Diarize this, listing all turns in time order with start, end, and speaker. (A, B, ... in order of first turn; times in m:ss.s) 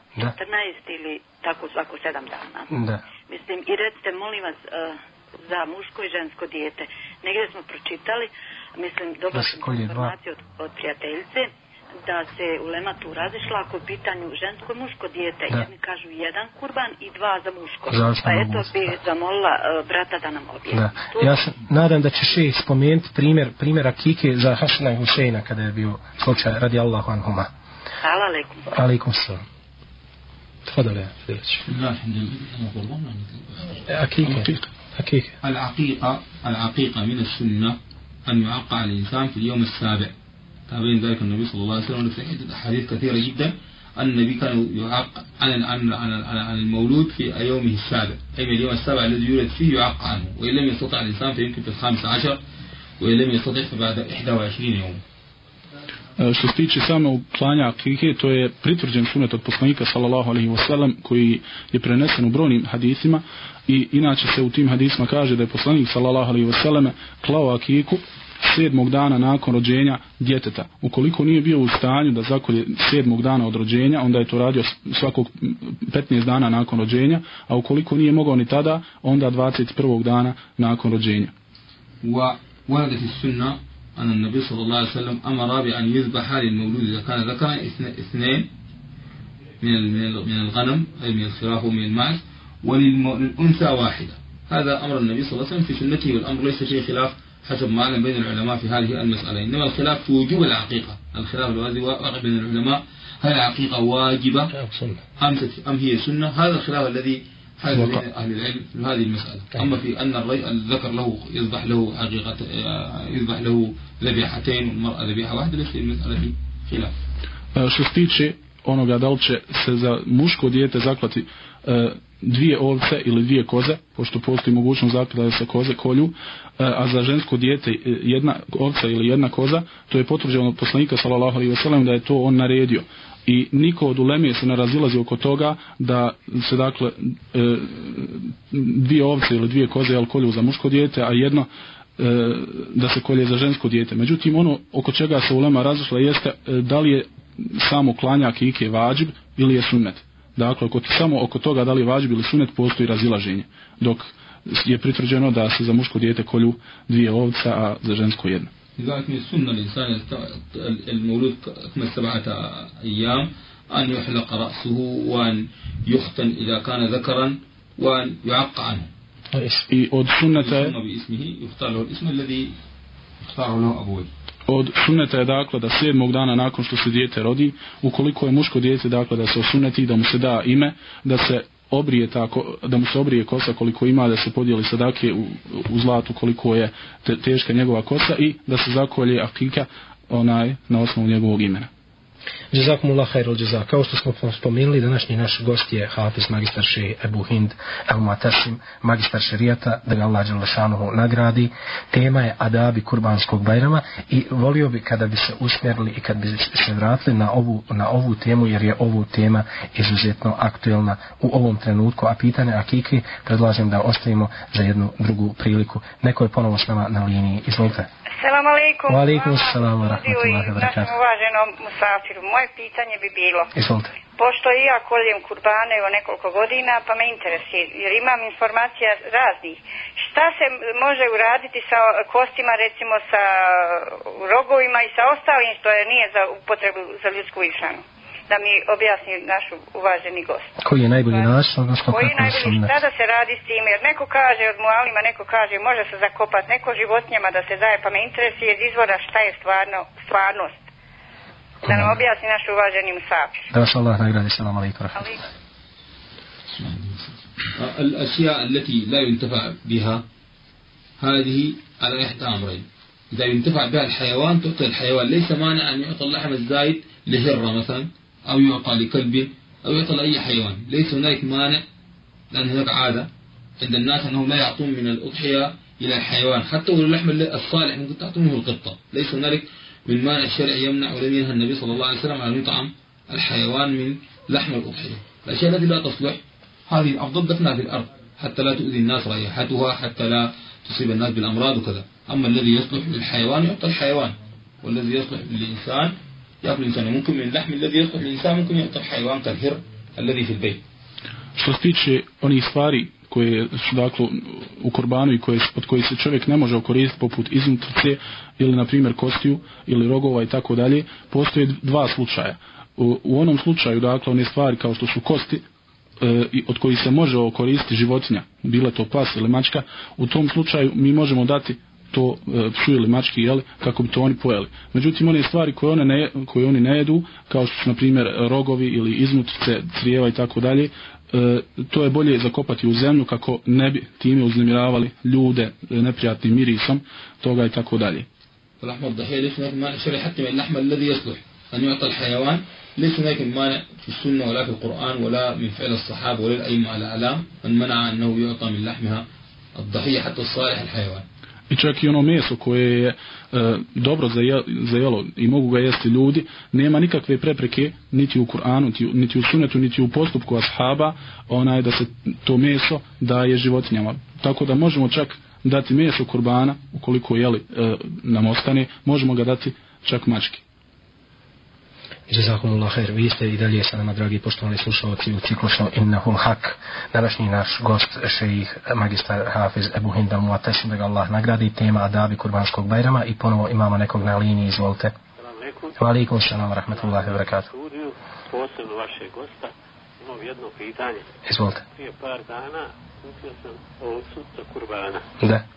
0:00.3-0:02.7 A
0:02.7-0:03.0 B
0:03.3-0:11.5 A
0:09.3-0:10.1 B
0:12.1-0:21.4 A
0:17.9-0:18.8 B
0:20.7-0:27.5 B
0:28.0-0:28.6 A
0:28.7-0:29.4 B
0:30.7-0:31.6 B
0:31.7-0:33.8 C
0:33.9-0:35.3 B
0:34.3-0:34.6 D
0:35.4-0:40.1 C
0:40.7-0:52.4 C
0:53.0-0:55.0 C
0:56.2-1:21.3 D
1:22.0-1:28.5 C
1:29.6-1:44.5 C
1:44.5-1:45.0 B
1:45.2-1:56.9 C
1:47.8-1:48.0 B
1:57.6-2:21.5 D
2:22.0-2:38.5 D
2:38.8-2:48.9 C
2:49.3-2:49.7 B
2:49.7-2:50.7 D
2:50.4-2:52.6 C
2:53.3-2:54.1 C
2:54.5-3:11.7 D
3:12.5-3:37.9 B
3:38.2-3:43.5 E
3:38.9-3:40.9 B
3:43.5-3:43.9 B
3:44.2-4:00.5 E
4:00.6-4:02.7 B
4:01.9-4:10.6 E
4:11.6-4:12.0 B
4:11.7-4:13.4 E
4:13.5-4:15.2 B
4:16.5-4:20.0 C
4:21.0-4:31.6 C
4:32.3-4:33.1 C
4:33.6-5:00.6 C
5:01.4-5:15.4 D
5:16.0-5:38.1 D
5:38.6-5:51.0 C
5:51.5-6:10.4 D
6:12.1-6:24.9 B
6:25.2-6:25.9 F
6:25.8-6:27.5 B
6:26.7-6:31.1 F
6:31.3-6:31.6 B
6:31.8-6:35.1 F